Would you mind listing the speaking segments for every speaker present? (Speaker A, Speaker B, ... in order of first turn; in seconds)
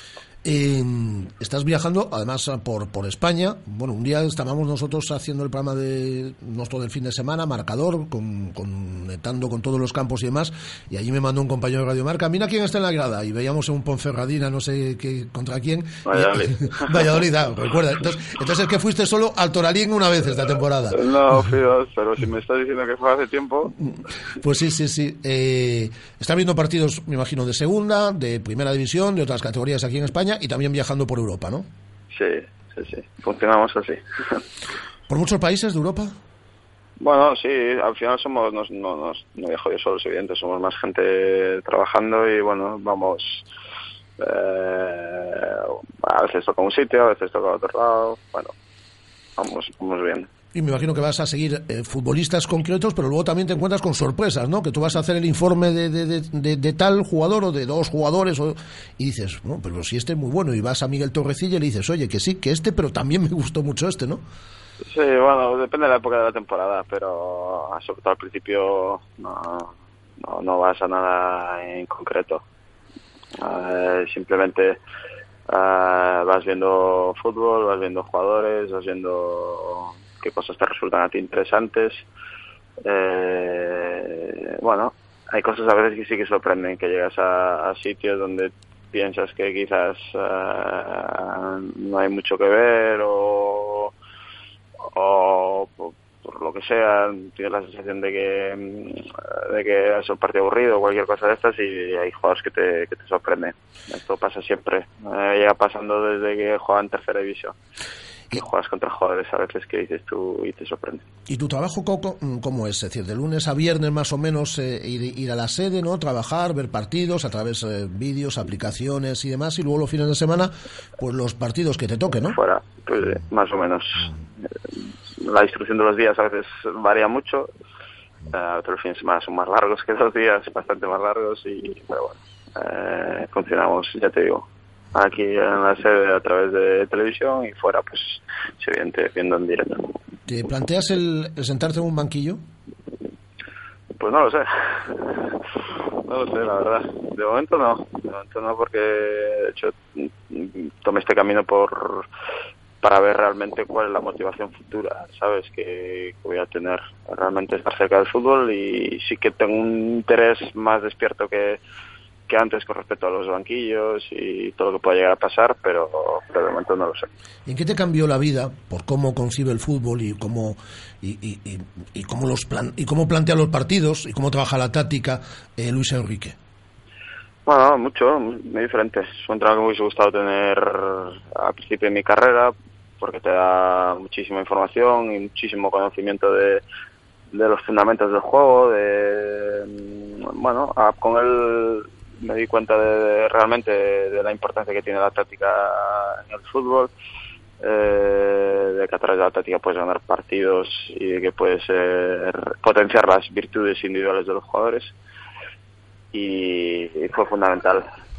Speaker A: 0.4-21.0, 23.8-31.7, 35.1-36.1, 50.5-64.2, 111.3-122.4, 140.3-142.4, 167.4-176.3
Speaker B: 16.1-17.1, 20.9-23.7, 32.1-34.4, 37.0-43.4, 44.2-48.5, 49.4-50.3, 64.9-72.4, 73.4-74.8, 75.5-82.0, 82.8-93.9, 94.9-107.5, 108.3-111.0, 122.3-124.5, 125.2-127.5, 128.3-139.9, 144.0-145.3, 146.0-152.1, 152.8-161.6, 162.3-167.1, 177.4-186.6, 187.3-196.9, 197.6-204.9, 206.1-207.9